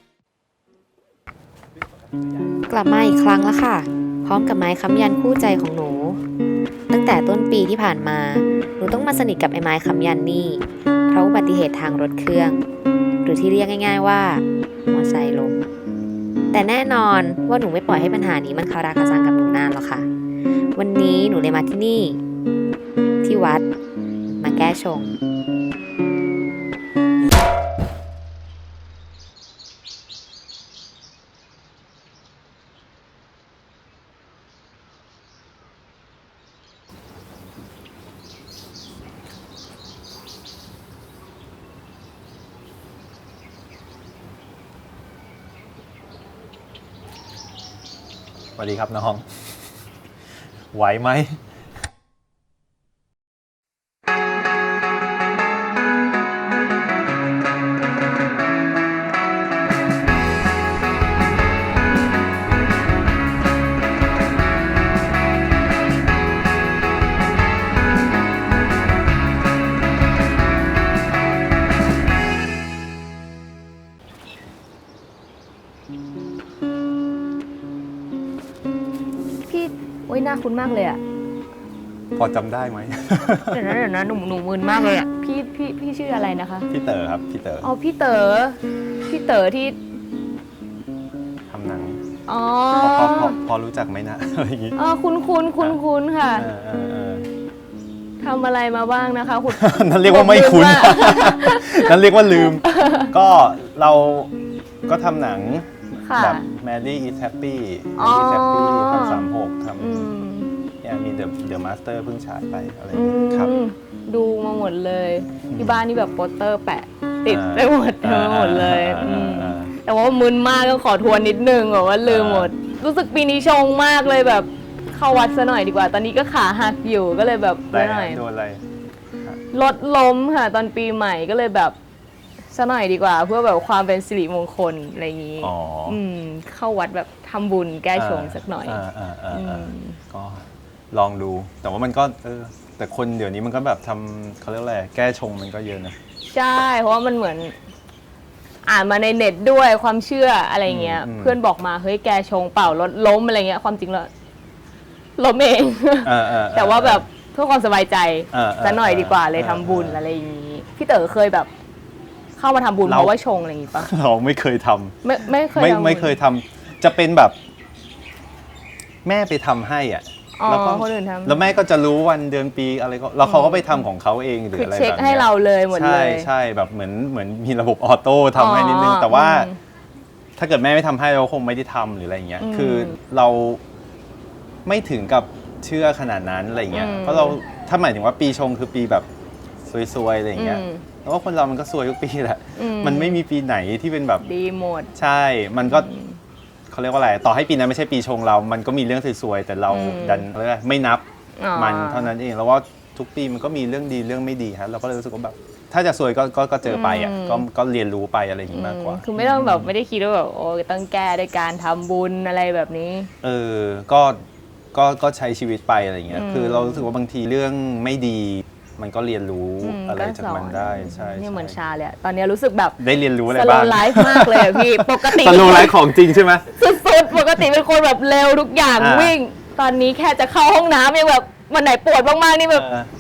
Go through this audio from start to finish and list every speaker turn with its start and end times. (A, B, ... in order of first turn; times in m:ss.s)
0:02.7-0:06.2 A
0:06.9-0:12.6 A
0:13.2-0:15.7 A
0:16.5-0:20.1 A
0:20.8-0:22.2 A
0:23.2-0:23.6 A
0:24.4-0:25.1 A
0:48.6-0:49.7 B
0:50.7-0:51.4 B
1:19.5-1:21.0 C
1:22.2-1:23.8 B
1:23.5-1:26.7 C
1:26.7-1:27.7 B
1:27.6-1:29.8 C
1:31.5-1:32.0 B
1:32.3-1:33.4 C
1:32.8-1:34.8 B
1:34.8-1:36.5 C
1:36.4-1:37.3 B
1:38.2-1:43.1 C
1:39.5-1:44.3 B
1:44.9-1:50.1 B
1:46.0-1:46.5 C
1:48.0-1:49.2 C
1:49.8-1:50.5 C
1:50.8-1:53.5 B
1:52.9-2:08.2 C
1:55.5-1:55.8 B
1:57.3-1:59.7 B
2:02.0-2:02.5 B
2:07.7-2:08.6 B
2:09.5-2:11.8 C
2:12.5-2:20.0 C
2:15.4-2:16.0 B
2:18.0-2:26.0 B
2:26.3-2:27.6 C
2:28.6-2:34.1 C
2:30.7-2:31.4 B
2:35.2-2:41.5 C
2:36.0-2:37.1 B
2:38.3-2:40.0 B
2:42.4-2:43.9 C
2:42.9-2:43.1 B
2:43.8-2:45.0 B
2:45.0-2:46.2 C
2:45.5-2:47.4 B
2:49.0-2:59.5 B
2:50.4-2:51.5 C
2:53.2-2:53.8 C
2:54.5-2:56.3 C
2:58.3-2:59.6 C
3:00.4-3:03.6 B
3:02.4-3:03.0 C
3:04.6-3:09.1 B
3:06.7-3:07.4 C
3:09.6-3:14.2 B
3:10.4-3:10.8 C
3:12.6-3:13.2 C
3:14.2-3:14.9 C
3:15.0-3:15.9 B
3:15.6-3:16.2 C
3:16.7-3:21.0 B
3:19.7-3:20.3 C
3:21.4-3:22.1 C
3:21.6-3:29.7 B
3:26.6-3:27.4 C
3:28.5-3:33.1 C
3:33.2-3:34.2 B
3:34.7-3:41.6 B
3:36.1-3:36.9 C
3:39.6-3:45.8 C
3:42.8-3:46.5 B
3:46.5-3:52.7 C
3:48.8-3:49.2 B
3:52.5-3:52.9 B